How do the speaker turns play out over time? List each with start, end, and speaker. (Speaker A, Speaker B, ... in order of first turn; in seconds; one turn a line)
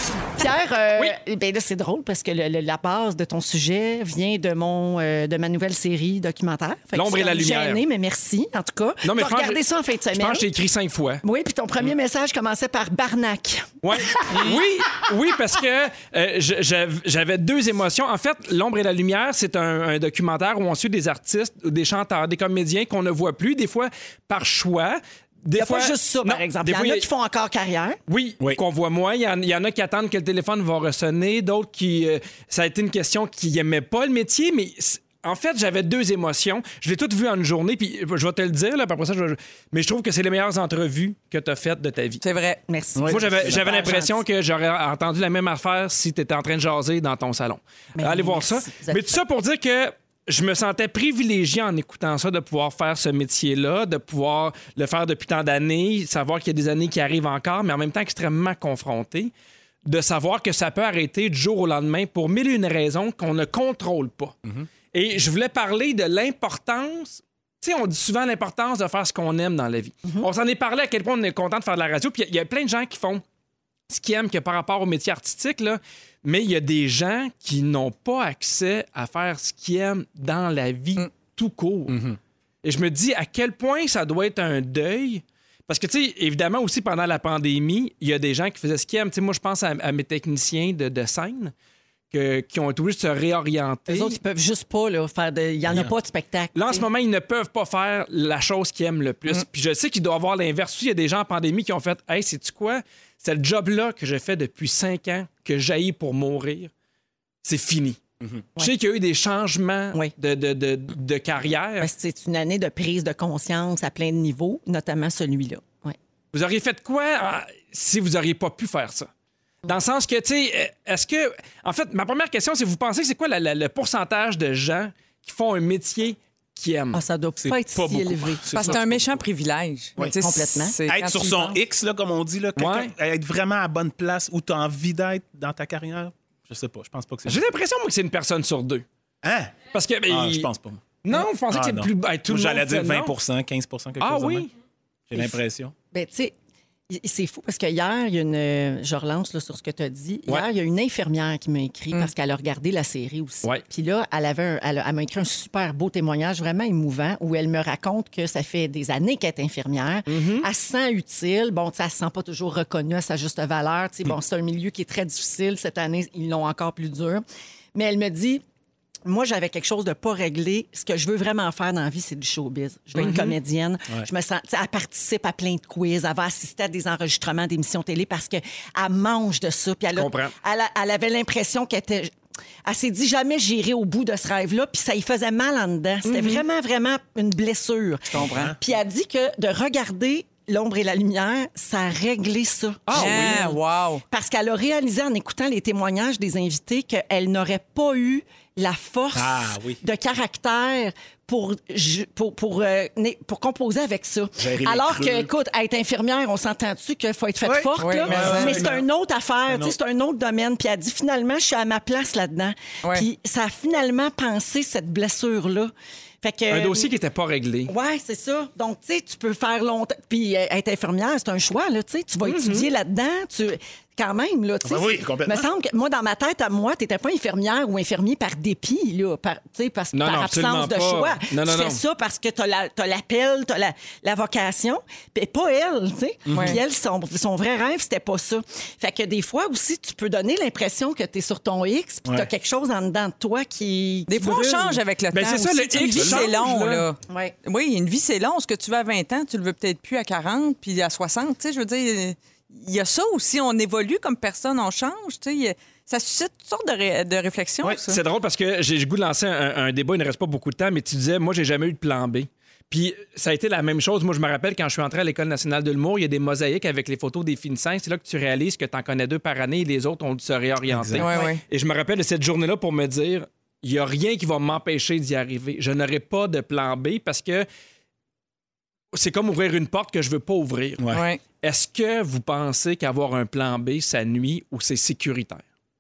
Speaker A: 0.4-10.5
Speaker B: 7.0-7.8
Speaker B: 9.0-11.2
Speaker A: 11.2-14.6
Speaker B: 13.8-27.1
Speaker A: 25.5-28.0
Speaker B: 28.1-42.2
Speaker C: 42.2-42.6
Speaker A: 42.7-44.2
Speaker D: 43.0-43.7
Speaker B: 43.1-59.3
Speaker A: 48.0-49.2
Speaker B: 59.9-64.4
Speaker B: 64.9-73.2
Speaker B: 73.9-82.0
Speaker D: 81.9-82.2
Speaker B: 82.6-91.5
Speaker B: 92.1-94.2
Speaker A: 93.9-96.9
Speaker B: 96.5-106.7
Speaker B: 107.4-108.0
Speaker B: 108.6-111.9
Speaker A: 111.8-116.0
Speaker B: 116.3-119.1
Speaker B: 119.7-127.0
Speaker A: 126.9-128.7
Speaker D: 127.4-129.2
Speaker C: 128.5-131.6
Speaker A: 130.0-130.8
Speaker D: 130.9-137.4
Speaker B: 132.6-132.9
Speaker B: 137.3-138.8
Speaker D: 139.2-140.9
Speaker B: 139.7-140.5
Speaker B: 141.0-143.1
Speaker D: 141.5-144.5
Speaker B: 144.0-144.5
Speaker D: 145.1-145.7
Speaker A: 145.9-146.3
Speaker A: 146.9-167.2
Speaker B: 160.1-160.5
Speaker A: 167.8-168.4
Speaker A: 169.1-182.1
Speaker B: 173.0-173.3
Speaker B: 179.9-180.3
Speaker A: 182.7-193.6
Speaker B: 186.1-186.4
Speaker D: 188.2-188.6
Speaker B: 192.9-193.4
Speaker C: 192.9-194.0
Speaker A: 194.1-216.9
Speaker D: 199.2-199.8
Speaker D: 204.4-205.3
Speaker D: 207.4-208.7
Speaker C: 207.8-208.6
Speaker B: 208.1-208.8
Speaker D: 209.5-209.8
Speaker B: 216.5-217.7
Speaker A: 217.7-244.8
Speaker B: 222.2-222.7
Speaker D: 224.6-225.5
Speaker B: 229.9-231.8
Speaker D: 236.3-236.6
Speaker C: 236.3-236.6
Speaker C: 244.1-258.0
Speaker B: 245.1-246.9
Speaker D: 245.8-246.3
Speaker A: 247.1-247.3
Speaker B: 257.9-277.5
Speaker D: 270.7-271.1
Speaker C: 271.0-271.4
Speaker B: 278.9-280.9
Speaker D: 280.8-281.1
Speaker C: 280.9-281.2
Speaker B: 281.4-285.4